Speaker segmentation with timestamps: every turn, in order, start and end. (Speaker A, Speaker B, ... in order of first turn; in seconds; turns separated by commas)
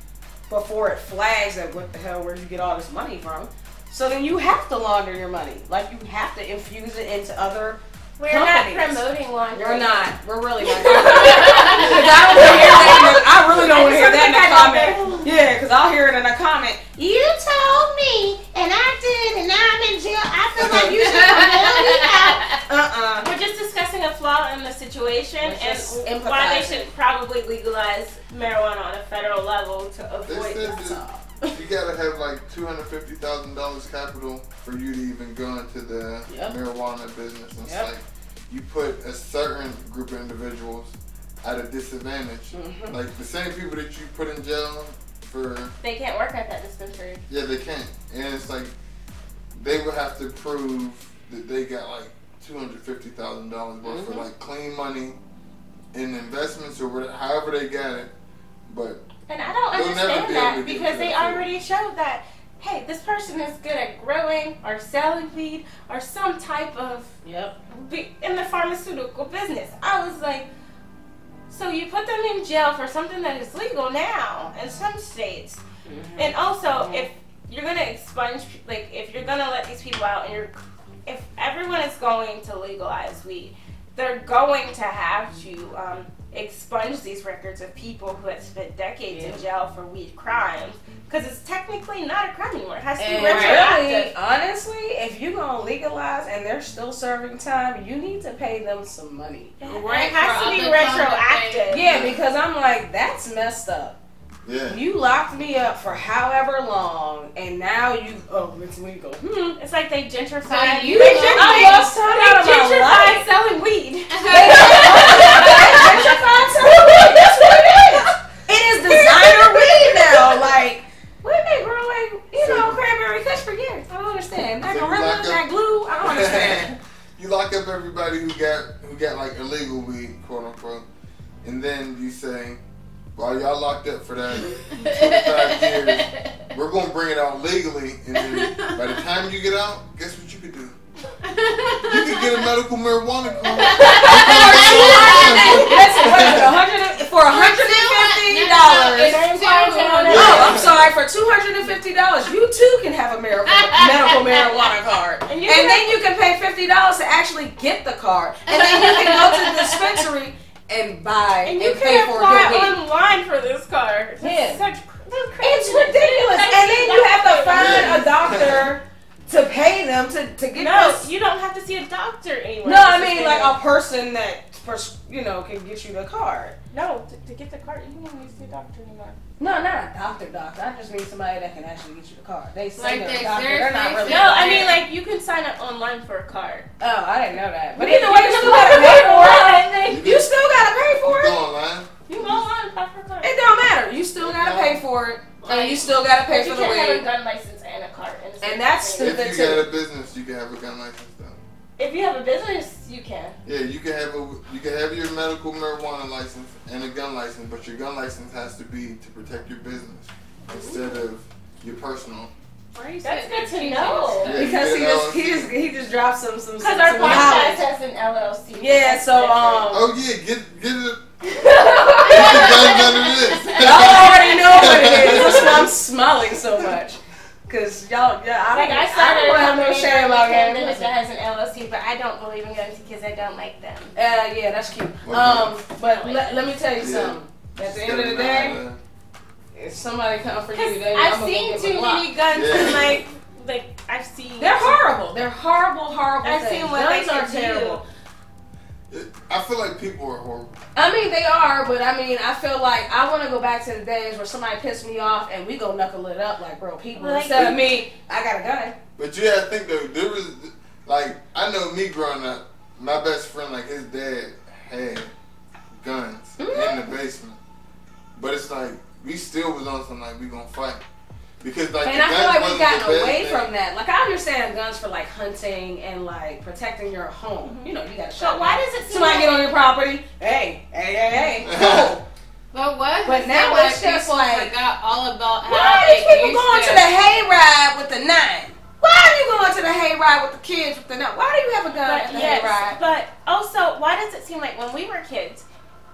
Speaker A: 0.5-17.0, Speaker B: 8.2-10.1, Speaker B: 10.6-15.2, Speaker C: 11.5-13.8, Speaker B: 17.0-22.4, Speaker C: 20.6-21.0, Speaker D: 20.9-22.5, Speaker A: 21.2-21.8, Speaker A: 22.6-23.3, Speaker B: 23.2-31.0, Speaker A: 25.4-26.9, Speaker C: 30.2-45.7, Speaker A: 30.8-31.5, Speaker A: 36.3-36.5, Speaker A: 37.6-37.9, Speaker A: 42.5-43.0, Speaker B: 45.8-47.2, Speaker C: 47.3-48.7, Speaker C: 49.5-55.2, Speaker A: 53.8-54.2, Speaker C: 55.9-58.1, Speaker C: 58.7-59.0, Speaker B: 59.3-67.1, Speaker C: 59.7-61.4, Speaker A: 67.2-67.5, Speaker B: 67.7-70.5, Speaker B: 71.5-75.6, Speaker A: 75.8-77.1, Speaker B: 76.2-94.1, Speaker A: 89.1-89.4, Speaker A: 93.0-99.5, Speaker D: 93.2-93.7, Speaker B: 99.6-102.0, Speaker D: 99.6-101.7, Speaker A: 101.7-104.0, Speaker C: 101.8-102.2, Speaker C: 104.4-104.8, Speaker A: 104.7-109.6, Speaker B: 109.6-118.2, Speaker D: 110.5-111.9, Speaker A: 110.9-113.2, Speaker D: 114.1-116.1, Speaker A: 114.3-121.2, Speaker B: 118.8-120.4, Speaker B: 121.2-122.3, Speaker A: 122.3-126.7, Speaker C: 122.4-122.8, Speaker C: 124.6-125.4, Speaker C: 126.0-130.8, Speaker C: 131.4-132.6, Speaker C: 133.1-140.7, Speaker D: 134.7-136.4, Speaker D: 138.2-138.9, Speaker D: 141.2-142.5, Speaker C: 141.8-146.5, Speaker D: 143.6-146.4, Speaker A: 143.7-149.3, Speaker D: 147.3-150.5, Speaker B: 148.9-150.7, Speaker A: 150.0-162.8, Speaker C: 150.1-150.9, Speaker D: 153.6-154.3, Speaker B: 155.2-156.0, Speaker D: 158.5-160.0, Speaker B: 161.4-168.1, Speaker A: 164.2-164.6, Speaker A: 165.4-171.1, Speaker C: 167.5-168.7, Speaker B: 170.6-173.6, Speaker A: 172.6-176.6, Speaker B: 176.7-179.2, Speaker A: 179.4-184.6, Speaker D: 182.8-184.8, Speaker B: 184.0-186.7, Speaker A: 186.8-191.4, Speaker B: 187.7-189.8, Speaker C: 189.8-190.3, Speaker C: 191.0-192.5, Speaker B: 192.1-193.3, Speaker A: 193.2-197.0, Speaker C: 194.2-194.8, Speaker B: 195.4-199.3, Speaker A: 198.4-199.7, Speaker C: 199.0-201.4, Speaker B: 201.8-203.3, Speaker C: 203.4-212.3, Speaker B: 210.5-210.9, Speaker D: 212.7-214.5, Speaker B: 213.0-214.5, Speaker A: 213.2-217.6, Speaker C: 214.2-215.5, Speaker B: 216.6-219.7, Speaker A: 218.6-219.8, Speaker C: 219.7-221.0, Speaker B: 221.2-225.5, Speaker C: 222.1-225.7, Speaker A: 223.6-230.9, Speaker B: 228.5-233.9, Speaker A: 233.9-238.6, Speaker C: 235.0-235.6, Speaker B: 235.9-236.3, Speaker C: 236.8-238.8, Speaker A: 239.5-242.1, Speaker B: 240.5-244.8, Speaker C: 242.3-243.0, Speaker A: 244.4-247.8, Speaker B: 246.2-247.8, Speaker C: 248.9-250.5, Speaker A: 250.7-258.7, Speaker B: 256.9-257.7, Speaker C: 259.0-265.1, Speaker C: 265.7-267.4, Speaker A: 266.4-266.9, Speaker C: 268.1-270.8, Speaker C: 271.4-273.5, Speaker A: 271.8-282.0, Speaker B: 277.4-279.5, Speaker C: 281.4-281.9, Speaker D: 282.5-286.9, Speaker A: 283.0-284.5, Speaker A: 285.4-292.8, Speaker B: 291.7-295.4